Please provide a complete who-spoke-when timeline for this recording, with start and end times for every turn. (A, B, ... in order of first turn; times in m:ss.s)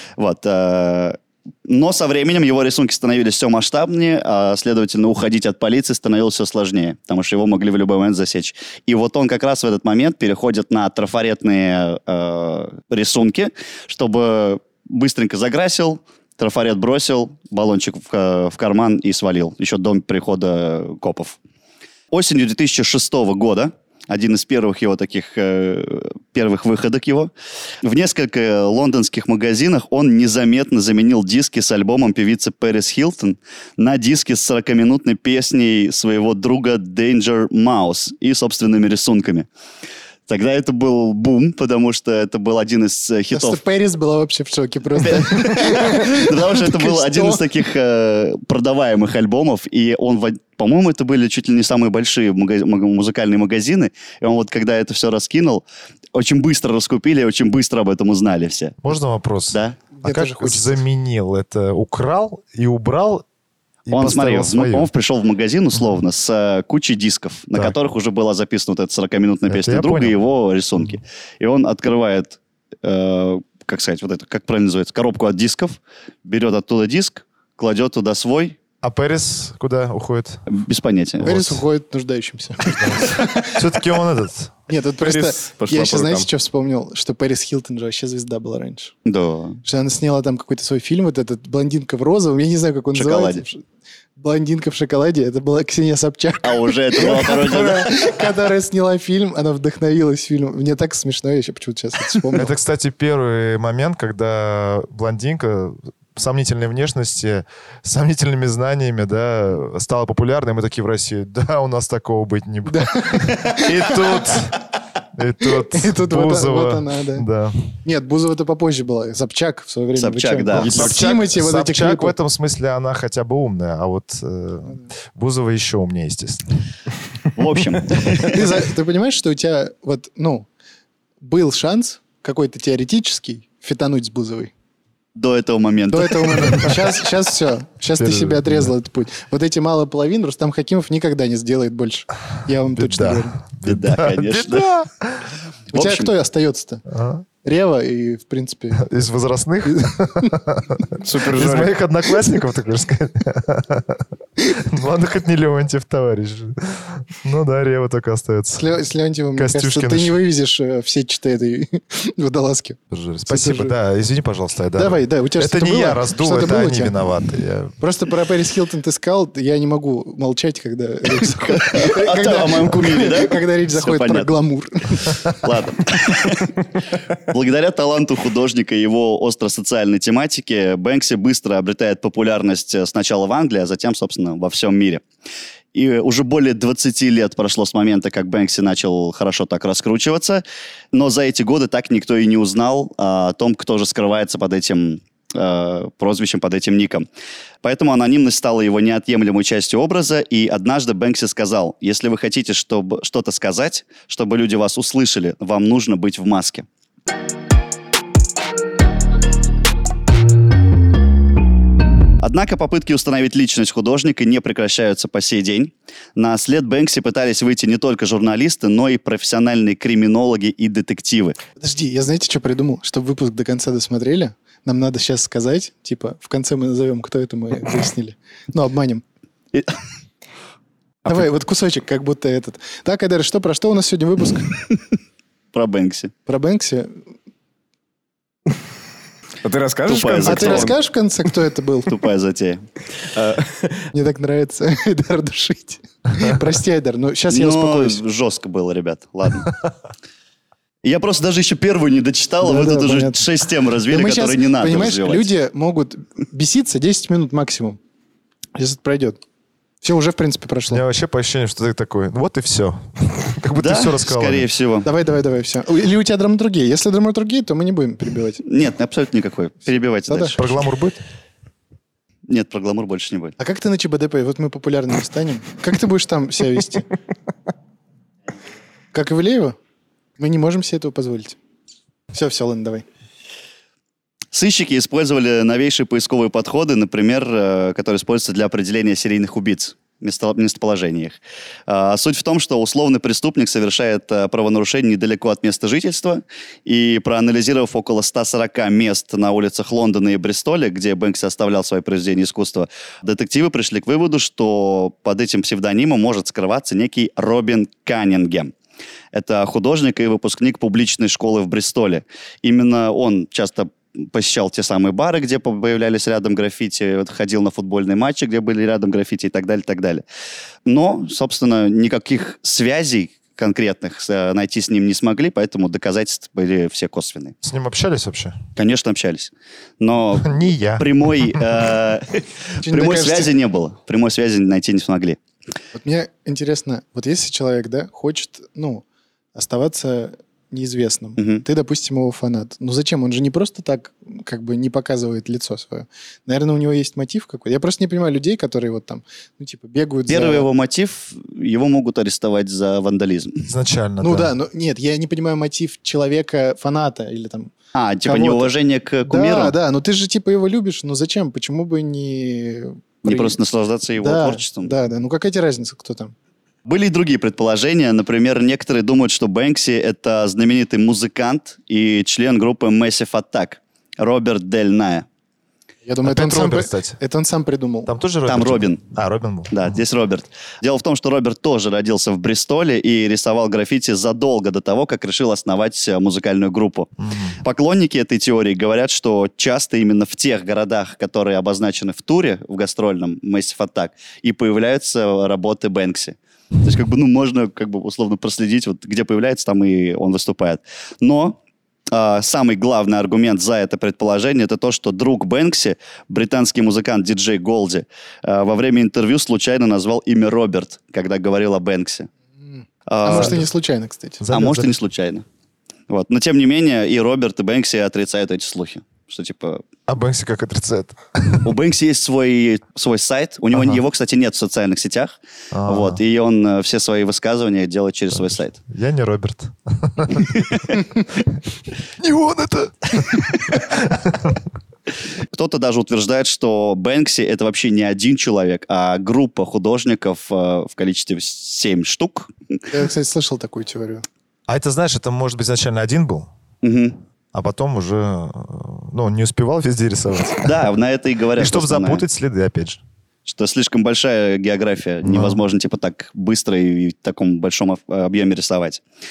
0:00.2-0:21.4 A
0:22.1-0:27.3 A
0:27.8-0:39.5 A
0:40.3-0:43.6 A
0:43.3-0:47.4 B
0:45.0-0:58.8 A
0:58.8-1:03.2 C
0:59.5-0:59.8 A
1:00.0-1:00.8 B
1:03.9-1:04.9 C
1:03.9-1:18.6 A
1:09.5-1:10.2 C
1:18.8-1:20.4 C
1:20.5-1:21.5 A
1:21.2-1:23.6 B
1:22.7-1:24.5 C
1:24.7-1:28.9 B
1:25.0-1:26.2 D
1:29.0-1:29.6 A
1:29.6-1:33.6 B
1:32.9-1:33.4 A
1:34.2-1:42.5 B
1:36.4-1:38.3 A
1:42.3-1:54.6 C
1:52.6-1:54.1 B
1:53.6-1:54.4 A
1:55.1-1:57.7 C
1:55.4-1:57.2 B
1:57.8-2:02.1 B
1:59.9-2:01.0 A
2:00.5-2:06.4 C
2:07.4-2:08.6 A
2:08.2-2:10.5 B
2:11.2-2:14.5 B
2:15.1-2:16.9 A
2:15.9-2:23.4 B
2:18.0-2:18.7 C
2:22.7-2:25.3 C
2:23.6-2:24.7 A
2:25.7-2:26.1 A
2:25.7-2:26.8 B
2:26.9-2:27.2 C
2:27.4-2:28.9 B
2:28.8-2:38.6 C
2:29.7-2:30.4 B
2:31.0-2:31.8 D
2:38.5-2:43.7 B
2:39.4-2:40.2 C
2:42.9-2:47.7 C
2:44.7-2:47.0 B
2:47.8-2:55.4 B
2:51.4-2:54.3 A
2:55.2-3:05.0 A
3:05.7-3:17.1 A
3:17.6-3:26.6 A
3:32.2-3:41.4 A
3:41.6-3:49.0 B
3:51.0-3:54.6 B
3:55.5-3:56.1 A
3:56.3-3:57.0 B
3:59.4-4:00.8 D
3:59.8-4:00.8 A
4:00.2-4:02.0 B
4:01.8-4:02.6 A
4:03.1-4:03.9 D
4:03.9-4:08.0 B
4:07.3-4:09.6 A
4:10.8-4:15.3 A
4:12.4-4:13.2 B
4:13.9-4:17.8 B
4:18.6-4:19.2 B
4:19.8-4:20.8 B
4:20.7-4:24.5 C
4:23.6-4:24.9 A
4:24.8-4:28.4 B
4:28.4-4:30.4 A
4:30.1-4:30.4 B
4:30.3-4:31.0 C
4:32.3-4:33.3 A
4:33.4-4:36.9 B
4:38.9-4:39.6 B
4:40.2-4:41.4 B
4:42.1-4:42.8 B
4:44.3-5:08.5 A
5:09.1-5:20.0 A
5:20.6-5:27.4 A
5:27.4-5:28.4 C
5:28.6-5:35.2 A
5:30.2-5:31.6 C
5:32.6-5:33.3 B
5:35.7-5:50.5 B
5:41.2-5:41.4 A
5:50.1-5:53.5 A
5:53.4-5:54.3 C
5:54.0-5:57.5 B
5:57.7-5:59.5 A
5:58.0-5:58.5 B
5:59.0-6:03.4 B
6:03.0-6:04.7 A
6:04.0-6:06.1 B
6:06.6-6:15.0 A
6:15.8-6:17.9 B
6:16.0-6:17.0 C
6:17.8-6:19.8 C
6:18.3-6:18.8 A
6:19.5-6:41.4 A
6:27.0-6:27.4 C
6:41.9-6:52.1 A
6:52.4-6:54.2 B
6:52.9-6:53.4 A
6:53.1-6:53.4 C
6:54.2-6:54.7 C
6:54.3-6:55.2 A
6:55.9-6:59.6 A
6:59.9-7:01.5 C
7:01.4-7:08.6 A
7:03.5-7:03.8 C
7:05.5-7:06.0 C
7:08.1-7:10.8 C
7:10.3-7:10.8 A
7:12.0-7:14.4 C
7:15.3-7:22.3 A
7:22.7-7:24.0 B
7:24.5-7:26.3 C
7:26.6-7:27.0 A
7:27.3-7:30.7 C
7:30.4-7:32.0 A
7:31.4-7:32.8 C
7:33.2-7:38.8 A
7:35.0-7:35.4 C